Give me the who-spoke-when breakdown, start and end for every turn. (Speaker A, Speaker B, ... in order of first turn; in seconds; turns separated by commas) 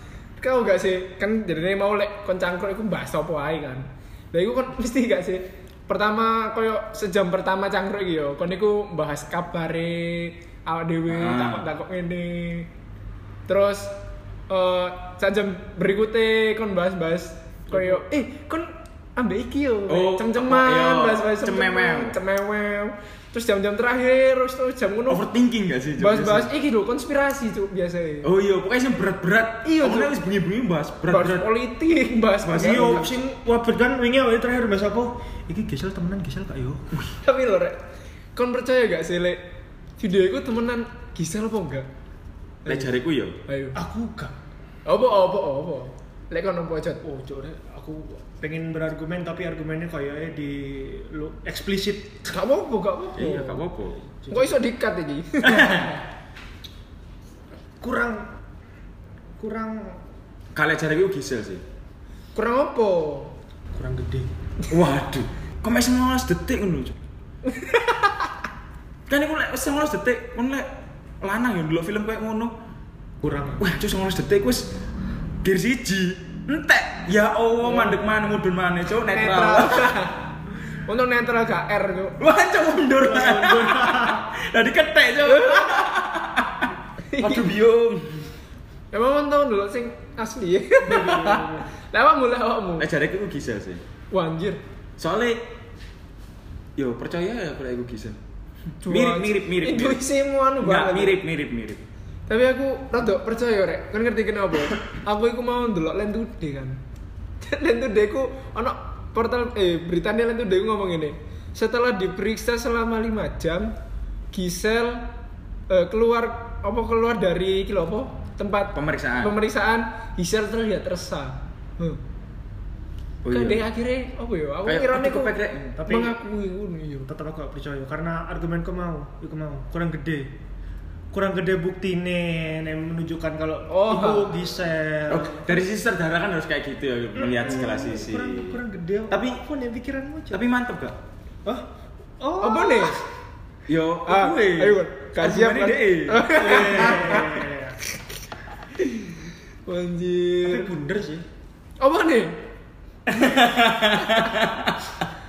Speaker A: 0.4-12.7, Speaker B: 11.1-11.7, Speaker A: 13.5-13.9, Speaker A: 14.5-25.3, Speaker C: 17.7-18.0, Speaker B: 19.9-22.1, Speaker B: 25.1-26.5, Speaker A: 26.0-28.3, Speaker B: 28.2-31.5, Speaker A: 29.6-30.1, Speaker A: 31.1-33.1, Speaker B: 32.4-33.1, Speaker C: 32.6-36.9, Speaker A: 37.1-37.8, Speaker A: 38.4-39.4, Speaker A: 40.0-41.9, Speaker B: 42.6-43.4, Speaker A: 43.5-43.8, Speaker C: 43.7-44.4, Speaker A: 44.9-47.0, Speaker C: 47.0-52.3, Speaker A: 52.3-53.6, Speaker B: 53.1-54.0, Speaker C: 54.2-54.6, Speaker A: 54.3-56.0, Speaker B: 55.4-56.0, Speaker C: 57.8-58.3, Speaker C: 59.4-60.0, Speaker B: 60.5-61.6, Speaker A: 62.4-63.4, Speaker C: 63.7-64.3, Speaker B: 64.7-67.0, Speaker A: 67.5-68.1, Speaker B: 69.1-70.7, Speaker B: 71.2-72.5, Speaker C: 73.2-73.6, Speaker B: 73.6-74.8, Speaker B: 75.4-80.0, Speaker A: 79.1-80.2, Speaker A: 80.9-82.2, Speaker B: 82.2-88.3, Speaker C: 83.0-84.2, Speaker A: 85.3-85.9, Speaker A: 87.1-87.5, Speaker A: 88.9-92.9, Speaker C: 90.8-91.7, Speaker B: 92.8-93.8, Speaker A: 94.1-94.6, Speaker B: 95.0-95.4, Speaker B: 96.8-98.2, Speaker A: 98.8-101.2, Speaker B: 98.9-100.0, Speaker B: 100.6-101.8, Speaker A: 102.3-106.8, Speaker A: 107.4-113.8, Speaker A: 114.3-115.1, Speaker A: 115.7-122.0, Speaker B: 118.7-119.3, Speaker B: 123.2-123.7, Speaker A: 123.3-127.1, Speaker B: 124.7-125.8, Speaker C: 125.8-126.2, Speaker C: 127.1-130.3, Speaker C: 131.1-135.6, Speaker A: 133.7-134.3, Speaker B: 135.1-138.6, Speaker C: 137.2-140.4, Speaker B: 139.1-139.4, Speaker B: 140.3-141.0, Speaker C: 142.2-143.0, Speaker A: 142.4-143.0, Speaker B: 143.7-147.2, Speaker A: 144.1-147.4, Speaker C: 146.3-147.8, Speaker A: 149.7-150.7, Speaker C: 150.4-151.3, Speaker A: 151.8-152.4, Speaker B: 153.1-155.0